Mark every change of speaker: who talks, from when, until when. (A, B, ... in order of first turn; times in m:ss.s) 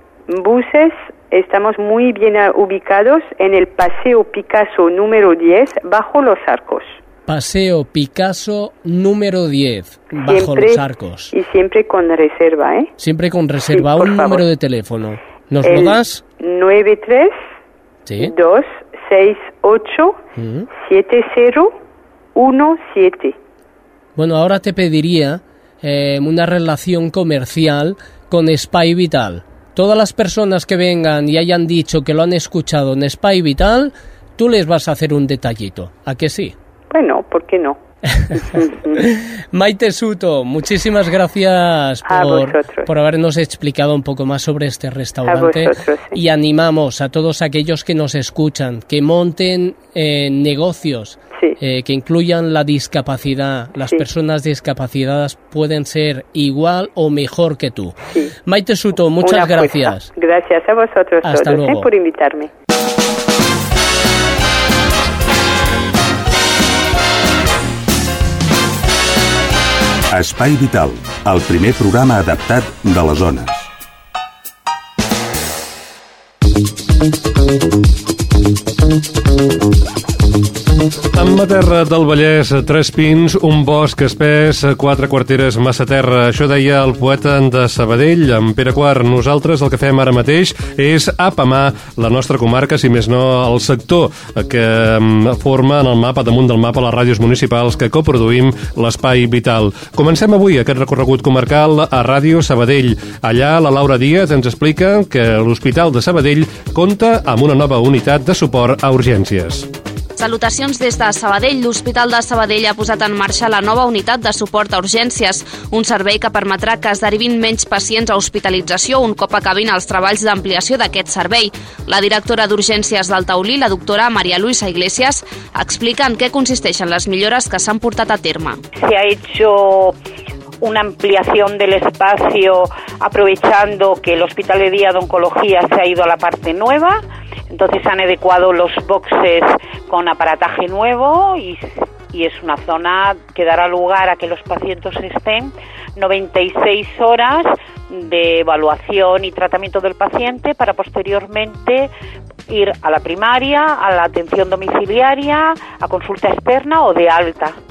0:00.3-0:07.0 A
0:07.3-0:11.3 B
0:10.2-0:10.8 A
0:11.3-0:12.9 A
0:13.0-0:16.2 B
0:13.7-0:14.4 A
0:15.6-0:17.4 A
0:18.1-0:18.3 B
0:18.2-0:20.2 A
0:20.4-0:20.7 B
0:20.8-0:21.7 A
0:22.4-0:23.4 A
0:24.2-0:36.6 B
0:36.9-0:37.8 A
0:38.1-1:00.1 B
0:38.5-0:39.0 A
0:42.1-0:42.9 A
0:45.3-0:46.2 A
0:59.2-1:02.5 A
1:01.2-1:01.9 B
1:10.1-1:13.7 C
1:21.1-1:49.7 D
1:50.2-2:08.6 E
2:08.8-2:10.0 F
2:10.6-2:31.9 F
2:32.5-2:37.6 F